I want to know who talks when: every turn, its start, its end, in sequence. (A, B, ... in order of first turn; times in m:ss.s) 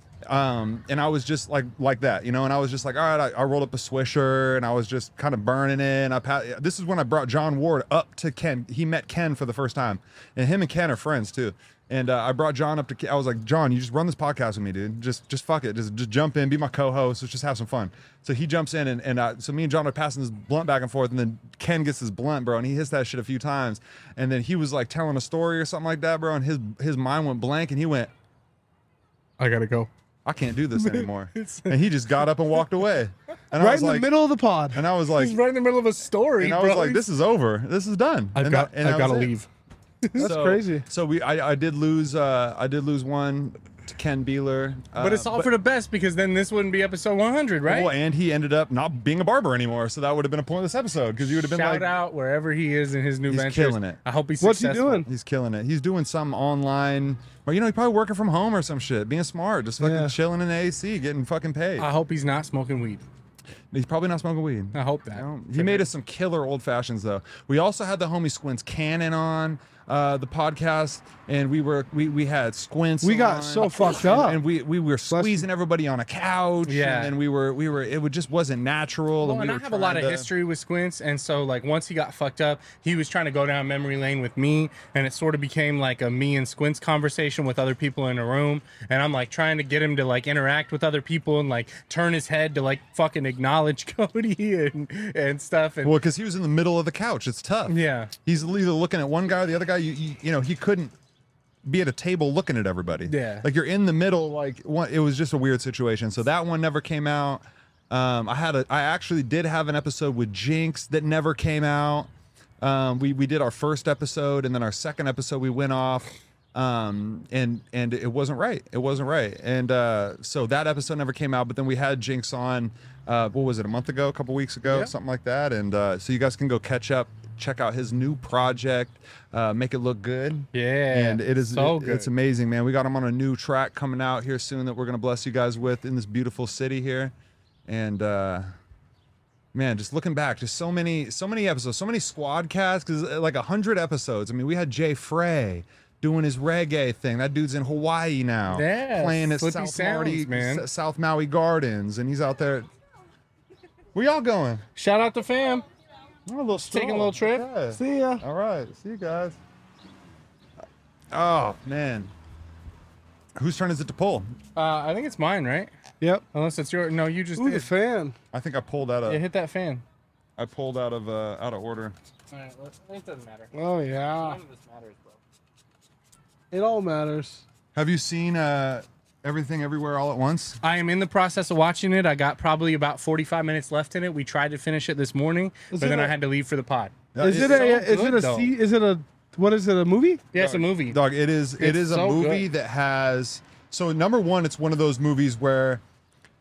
0:00.3-0:28.1 A
0:29.4-0:29.9 B
0:30.2-0:34.1 A
0:30.8-0:31.7 B
0:33.6-0:34.8 C
0:34.7-0:35.4 A
0:35.2-0:37.0 B
0:36.4-0:39.3 A
0:38.4-0:39.5 B
0:40.0-0:40.3 B
0:40.1-0:40.8 C
0:40.2-0:45.5 A
0:45.0-0:47.9 B
0:47.6-0:51.9 A
0:51.4-0:55.0 B
0:53.3-0:54.0 A
0:54.4-0:55.1 C
0:55.0-1:01.9 A
0:59.8-1:00.1 C
1:01.8-1:03.0 B
1:03.7-1:20.3 A
1:04.7-1:05.9 B
1:13.0-1:14.4 C
1:15.1-1:15.4 C
1:16.6-1:17.1 B
1:19.2-1:36.0 B
1:35.8-1:40.9 A
1:37.7-1:38.1 B
1:41.6-1:52.1 A
1:43.1-1:43.4 B
1:52.6-2:17.1 A
2:10.5-2:12.1 B
2:17.7-2:18.5 A
2:19.5-2:32.7 A
2:28.5-2:30.6 B
2:33.9-2:34.6 A
2:34.8-2:35.6 B
2:36.2-2:39.4 A
2:36.6-2:37.5 B
2:37.7-2:38.2 C
2:41.1-2:42.1 A
2:43.4-2:44.3 A
2:44.6-2:45.7 B
2:46.3-2:47.7 B
2:47.4-2:48.2 C
2:48.3-2:49.2 A
2:49.0-2:49.8 B
2:50.4-2:51.9 A
2:52.3-2:53.5 B
2:53.5-2:54.4 C
2:54.1-2:55.2 B
2:56.5-2:57.4 C
2:57.7-3:00.6 A
3:00.6-3:08.5 B
3:05.7-3:06.1 C
3:07.1-3:07.7 A
3:07.2-3:10.2 C
3:10.3-3:11.0 B
3:10.3-3:15.8 A
3:11.6-3:12.5 B